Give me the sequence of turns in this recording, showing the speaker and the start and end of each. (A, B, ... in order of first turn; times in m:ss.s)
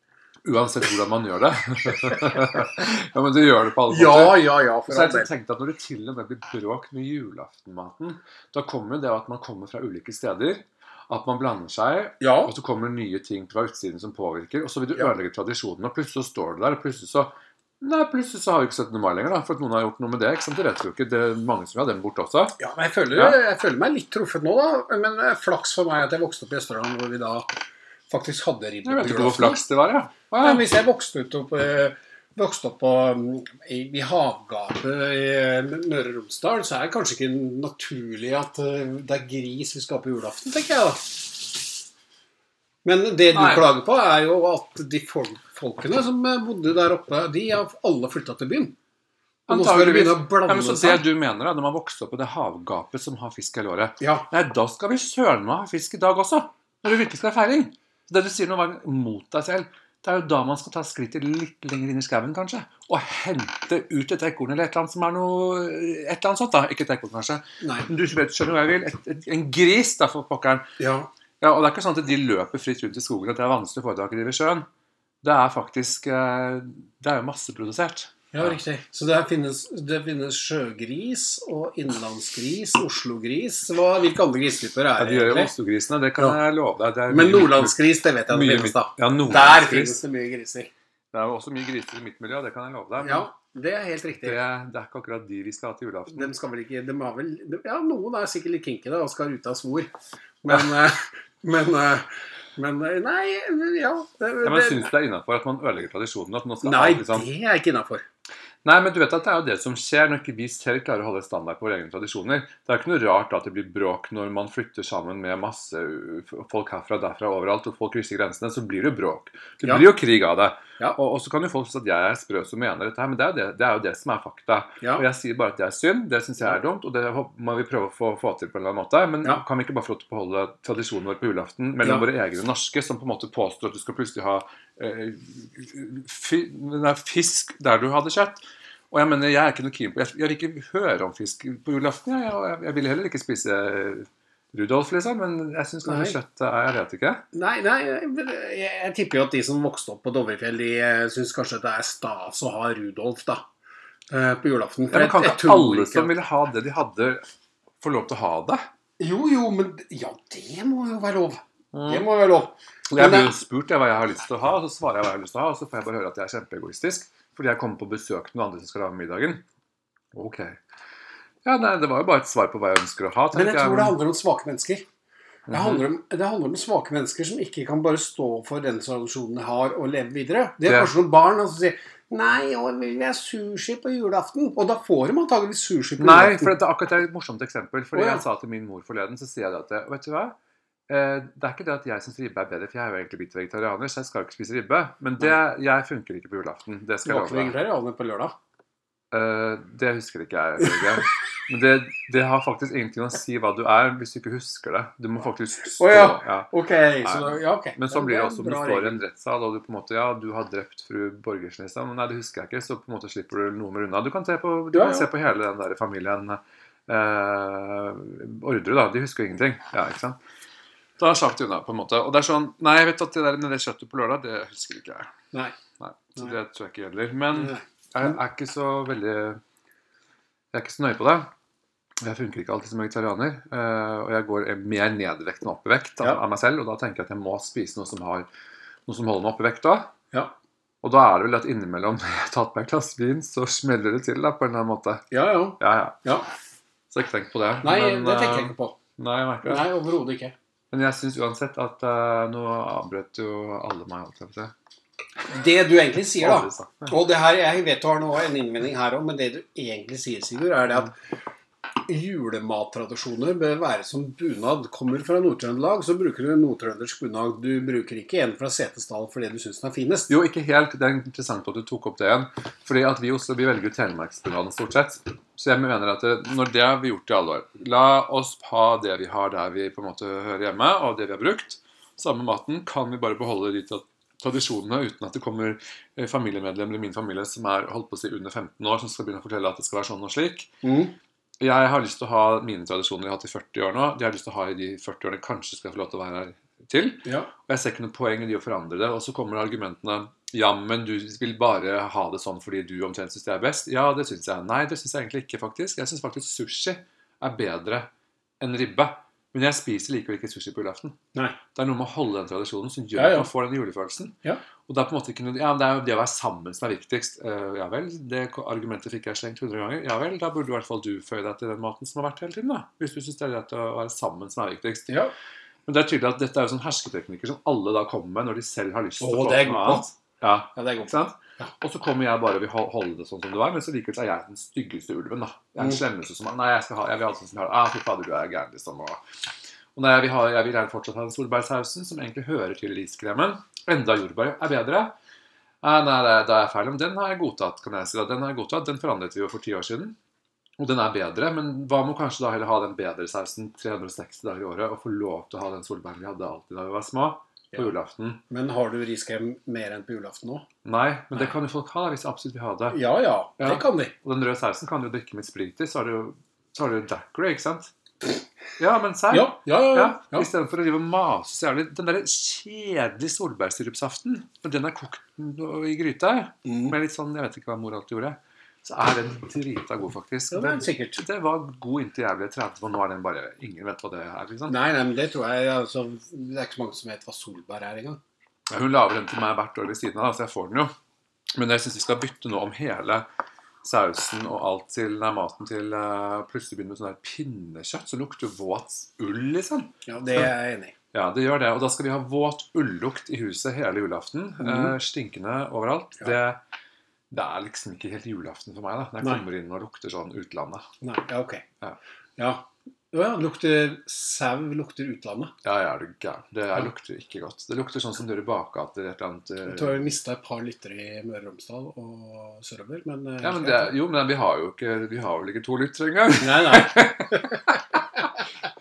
0:00.4-0:22.6 A
0:03.9-0:05.3 B
0:12.2-0:12.5 B
0:22.6-0:27.5 B
0:23.1-0:23.4 A
0:28.1-0:29.6 B
0:28.8-0:30.7 A
0:30.4-0:41.6 B
0:42.8-0:48.8 B
0:43.3-0:43.7 A
0:49.5-1:10.7 A
0:49.5-0:51.0 B
0:54.0-0:54.3 B
1:07.6-1:07.9 B
1:10.8-1:11.1 B
1:11.4-1:14.7 A
1:15.2-1:18.6 A
1:18.3-1:25.5 B
1:25.0-1:30.0 A
1:27.1-1:30.7 B
1:31.1-1:33.3 A
1:33.0-1:34.4 B
1:34.2-1:36.3 A
1:36.1-1:39.9 B
1:40.4-1:44.9 B
1:44.4-1:47.3 A
1:46.6-1:48.0 B
1:48.6-2:18.4 A
2:18.9-2:27.2 A
2:25.8-2:26.2 B
2:27.3-2:33.4 B
2:34.1-2:36.1 B
2:34.9-2:37.2 A
2:37.8-2:38.7 A
2:39.0-2:43.3 B
2:41.7-2:42.1 A
2:42.9-2:49.4 A
2:50.1-2:50.6 A
2:51.4-2:54.0 A
2:53.3-2:54.8 B
2:55.5-2:55.8 A
2:55.5-3:06.5 B
3:00.6-3:00.9 A
3:06.0-3:10.4 A
3:07.9-3:08.2 B
3:10.9-3:17.6 A
3:17.0-3:18.3 B
3:19.1-3:26.5 A
3:25.8-3:29.0 B
3:27.0-3:40.2 A
3:34.7-3:35.1 B
3:41.0-3:45.1 A
3:45.8-3:49.4 A
3:47.3-3:48.2 B
3:50.5-3:51.3 A
3:52.0-3:58.3 A
3:58.9-3:59.9 A
4:00.8-4:05.0 A
4:05.1-4:06.2 B
4:05.6-4:06.0 A
4:06.9-4:09.6 A
4:07.6-4:08.8 B
4:09.4-4:10.3 B
4:10.7-4:14.5 A
4:15.3-4:20.9 B
4:16.1-4:17.0 A
4:21.9-4:30.1 B
4:30.1-4:50.5 A
4:50.6-4:50.9 B
4:51.4-5:11.0 A
4:57.0-4:57.3 B
5:11.5-5:14.2 A
5:12.9-5:13.3 B
5:14.7-5:24.9 A
5:24.9-5:25.1 B
5:25.6-5:39.0 A
5:29.0-5:29.9 B
5:30.5-5:31.5 B
5:39.7-5:44.9 A
5:45.6-5:50.0 A
5:50.6-5:58.2 A
5:58.3-6:00.4 B
6:00.6-6:02.8 A
6:02.7-6:03.9 B
6:03.4-6:07.7 A
6:08.6-6:24.5 A
6:09.1-6:10.3 B
6:16.4-6:16.7 B
6:20.3-6:21.0 B
6:24.5-6:28.0 B
6:28.5-6:30.7 A
6:31.3-6:33.0 A
6:33.6-6:40.3 A
6:39.8-6:40.7 B
6:40.9-6:46.4 A
6:44.4-6:44.7 B
6:47.1-6:50.7 A
6:50.8-6:51.4 B
6:52.2-6:55.3 B
6:55.4-6:59.9 A
6:59.4-7:03.7 B
7:03.2-7:08.1 A
7:06.2-7:07.4 B